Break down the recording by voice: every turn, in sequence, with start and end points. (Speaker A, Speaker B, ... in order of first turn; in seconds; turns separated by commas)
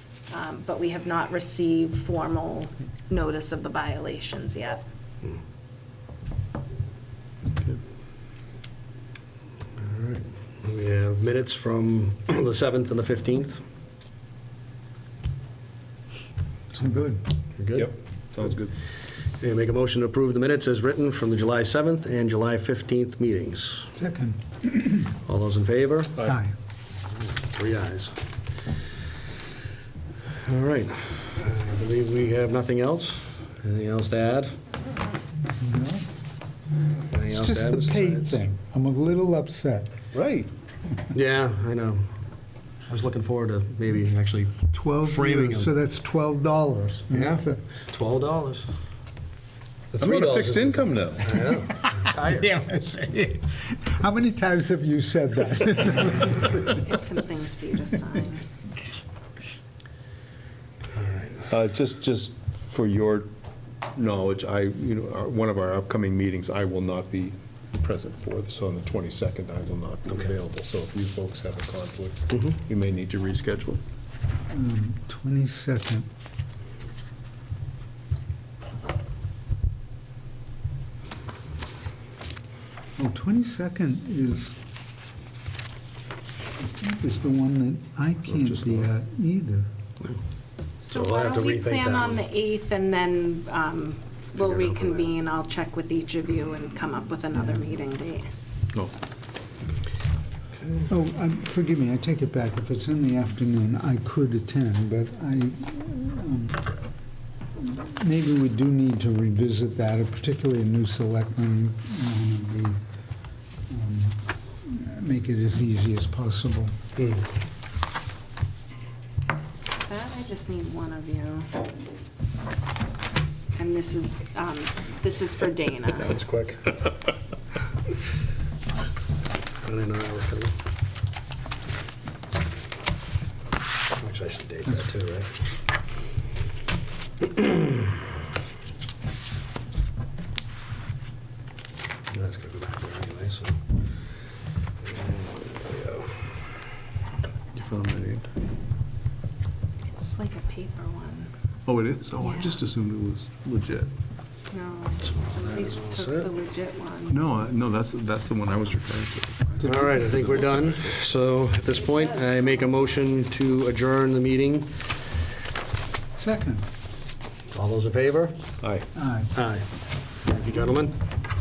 Speaker A: 0.3-4.8, Speaker B: 9.8-13.6, Speaker C: 16.7-17.2, Speaker B: 17.6-17.9, Speaker D: 17.7-18.7, Speaker B: 19.4-23.9, Speaker C: 23.9-25.1, Speaker B: 25.2-26.2, Speaker C: 26.2-26.5, Speaker B: 27.4-28.2, Speaker B: 30.3-34.5, Speaker C: 35.5-36.0, Speaker B: 37.1-38.4, Speaker C: 37.3-39.9, Speaker D: 40.1-40.5, Speaker B: 41.1-42.1, Speaker B: 42.9-45.7, Speaker C: 44.7-47.6, Speaker B: 47.1-48.7, Speaker B: 49.9-52.5, Speaker D: 50.0-51.4, Speaker C: 51.5-57.0, Speaker A: 56.4-58.4, Speaker B: 60.9-61.4, Speaker D: 61.5-63.3, Speaker D: 63.9-73.8, Speaker C: 74.5-76.1, Speaker C: 83.0-84.5, Speaker C: 86.6-89.7, Speaker A: 90.8-98.3, Speaker B: 90.9-92.2, Speaker B: 94.4-95.1, Speaker C: 100.9-106.6, Speaker C: 107.5-112.8, Speaker C: 113.7-116.7, Speaker B: 117.0-117.2, Speaker A: 119.8-121.7, Speaker A: 123.5-126.2, Speaker B: 125.9-126.8, Speaker B: 129.6-130.5, Speaker B: 134.0-135.3, Speaker B: 137.3-137.6, Speaker B: 142.1-143.6, Speaker B: 144.8-146.2, Speaker D: 147.5-148.3, Speaker A: 149.8-151.3, Speaker D: 151.7-153.9, Speaker A: 152.2-152.6, Speaker A: 154.5-157.2, Speaker B: 155.0-156.3, Speaker D: 157.1-161.0, Speaker B: 159.6-164.7, Speaker A: 161.8-162.8, Speaker C: 166.1-166.7, Speaker B: 167.5-168.5, Speaker D: 168.6-168.9, Speaker C: 168.9-169.3, Speaker B: 169.3-171.0